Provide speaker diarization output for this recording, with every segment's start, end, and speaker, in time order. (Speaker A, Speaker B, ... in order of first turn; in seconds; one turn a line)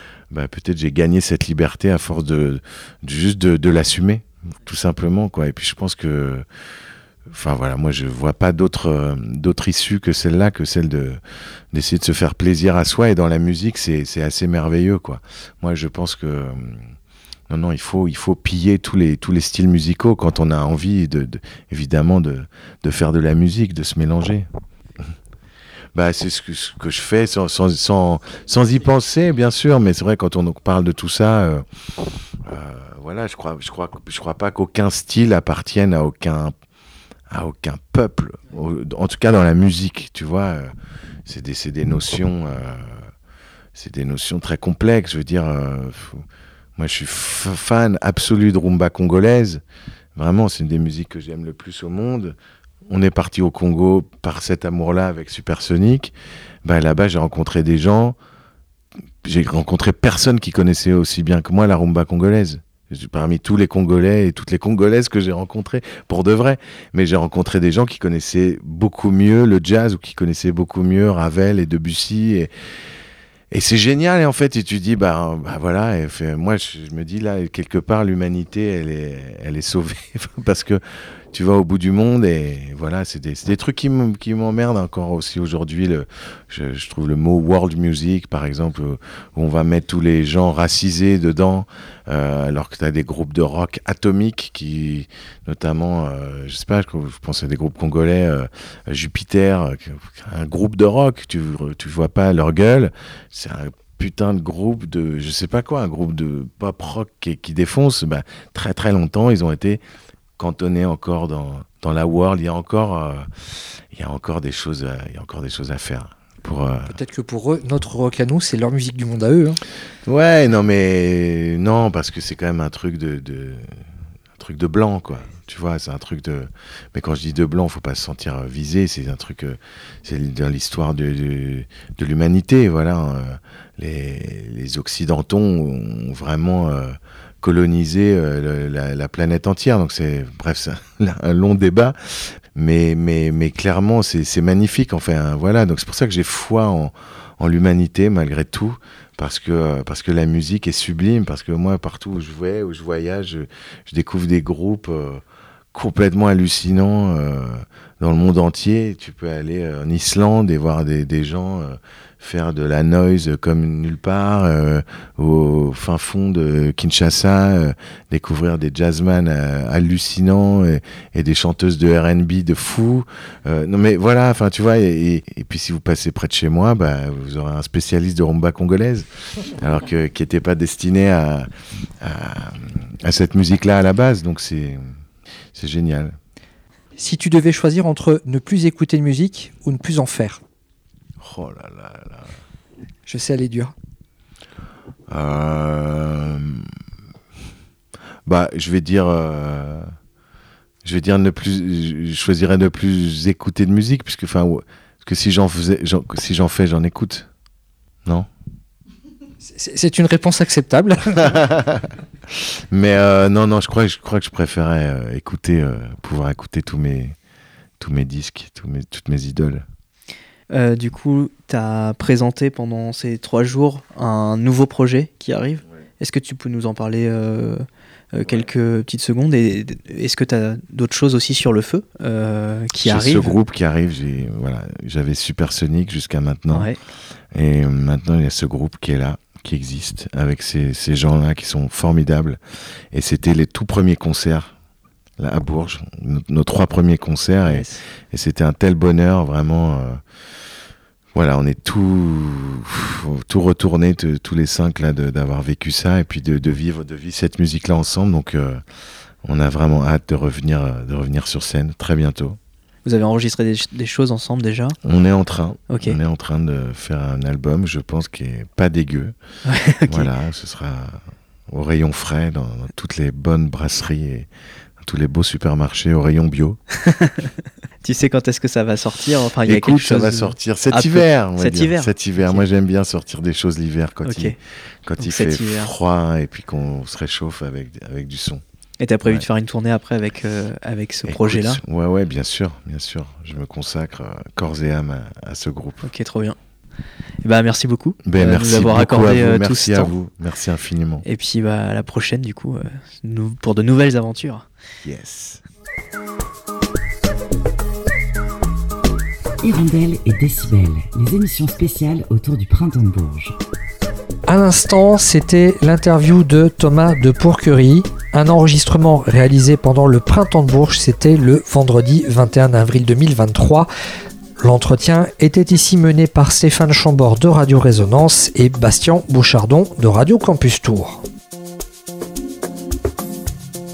Speaker A: 0.3-6.4
Speaker A: 7.3-11.2
Speaker A: 11.7-16.9
Speaker A: 17.5-24.5
Speaker A: 25.9-31.6
Speaker A: 32.5-36.5
Speaker A: 37.3-40.7
Speaker A: 41.2-43.0
Speaker A: 43.8-46.2
Speaker A: 46.8-49.6
Speaker A: 50.2-52.4
Speaker A: 52.9-56.1
Speaker A: 56.6-58.2
Speaker A: 59.2-72.5
Speaker A: 73.5-80.8
Speaker A: 81.3-109.8
Speaker A: 110.4-113.3
Speaker A: 113.9-117.0
Speaker B: 116.9-119.6
Speaker A: 120.1-123.8
Speaker A: 124.4-155.2
Speaker A: 155.7-181.5
Speaker A: 182.0-184.9
Speaker A: 185.6-186.2
Speaker B: 187.0-190.4
Speaker A: 191.2-192.4
Speaker B: 193.1-193.7
Speaker A: 195.1-196.7
Speaker A: 198.3-199.9
Speaker A: 200.8-207.3
Speaker B: 209.4-211.4
Speaker A: 211.2-217.2
Speaker A: 217.8-219.7
Speaker C: 220.5-233.3
Speaker A: 232.8-236.7
Speaker C: 236.5-236.8
Speaker A: 237.3-242.4
Speaker A: 242.9-244.5
Speaker A: 245.2-250.0
Speaker C: 247.4-247.8
Speaker A: 251.2-258.6
Speaker A: 259.2-262.4
Speaker C: 262.9-264.8
Speaker A: 264.8-269.1
Speaker C: 265.7-266.0
Speaker C: 269.5-270.1
Speaker A: 269.9-274.3
Speaker A: 274.8-276.6
Speaker C: 276.8-277.3
Speaker C: 277.8-282.4
Speaker A: 279.5-288.4
Speaker C: 284.1-284.4
Speaker C: 285.0-285.7
Speaker C: 288.8-291.6
Speaker A: 291.1-295.9
Speaker C: 295.8-296.4
Speaker C: 297.2-299.9
Speaker A: 298.1-301.1
Speaker C: 301.1-304.5
Speaker A: 304.8-305.4
Speaker D: 309.4-313.4
Speaker B: 314.3-323.7
Speaker B: 324.4-331.0